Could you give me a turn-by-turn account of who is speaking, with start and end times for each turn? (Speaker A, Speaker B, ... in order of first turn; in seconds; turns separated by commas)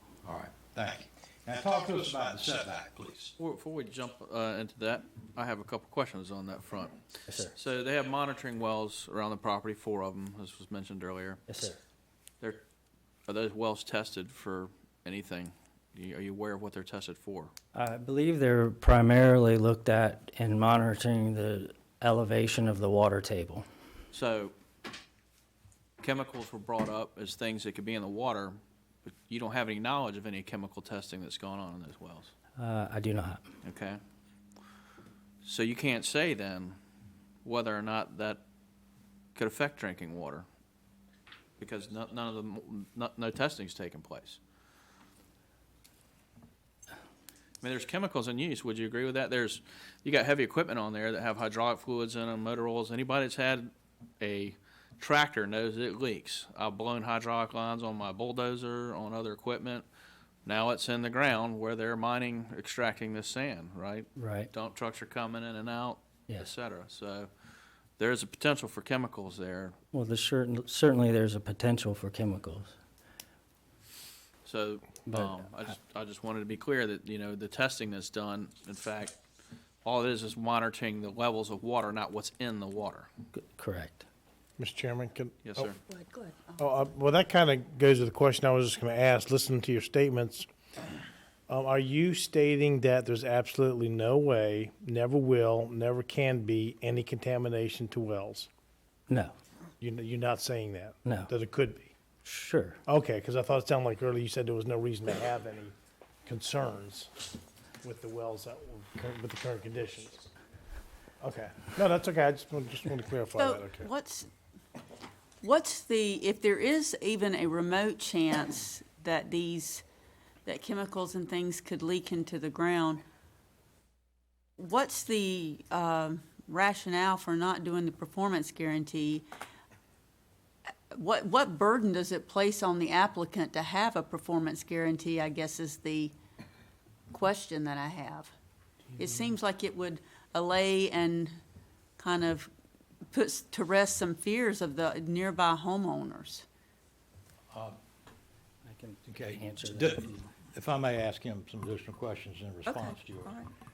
Speaker A: 0.2-3.3, Speaker B: 3.4-11.4, Speaker C: 7.3-7.6, Speaker C: 11.5-11.8, Speaker B: 13.3-17.5, Speaker C: 17.7-23.6, Speaker B: 24.1-24.5, Speaker B: 26.0-32.3, Speaker C: 32.6-33.4, Speaker B: 33.6-34.0, Speaker B: 35.4-36.8, Speaker B: 37.4-38.4, Speaker B: 39.4-40.5, Speaker B: 41.6-44.4, Speaker B: 47.6-59.9, Speaker B: 60.5-67.3, Speaker C: 64.2-64.5, Speaker B: 68.0-69.8, Speaker C: 69.9-72.7, Speaker B: 74.5-79.2, Speaker C: 75.1-75.4, Speaker B: 79.8-83.1, Speaker C: 83.3-84.1, Speaker D: 84.6-85.7, Speaker B: 85.4-85.8, Speaker E: 85.9-86.6, Speaker D: 86.6-90.5, Speaker D: 91.5-98.5, Speaker D: 99.8-101.9, Speaker C: 102.2-102.8, Speaker D: 102.9-105.8, Speaker D: 106.3-107.1, Speaker D: 107.8-110.3, Speaker D: 111.2-113.9, Speaker E: 113.3-114.3, Speaker E: 115.4-119.8, Speaker E: 120.5-123.0, Speaker E: 124.6-129.3, Speaker E: 130.9-136.1, Speaker E: 137.1-138.3, Speaker E: 138.9-141.4, Speaker E: 142.0-142.5, Speaker E: 143.1-146.4, Speaker C: 148.7-150.3, Speaker A: 149.1-153.4, Speaker E: 152.7-153.5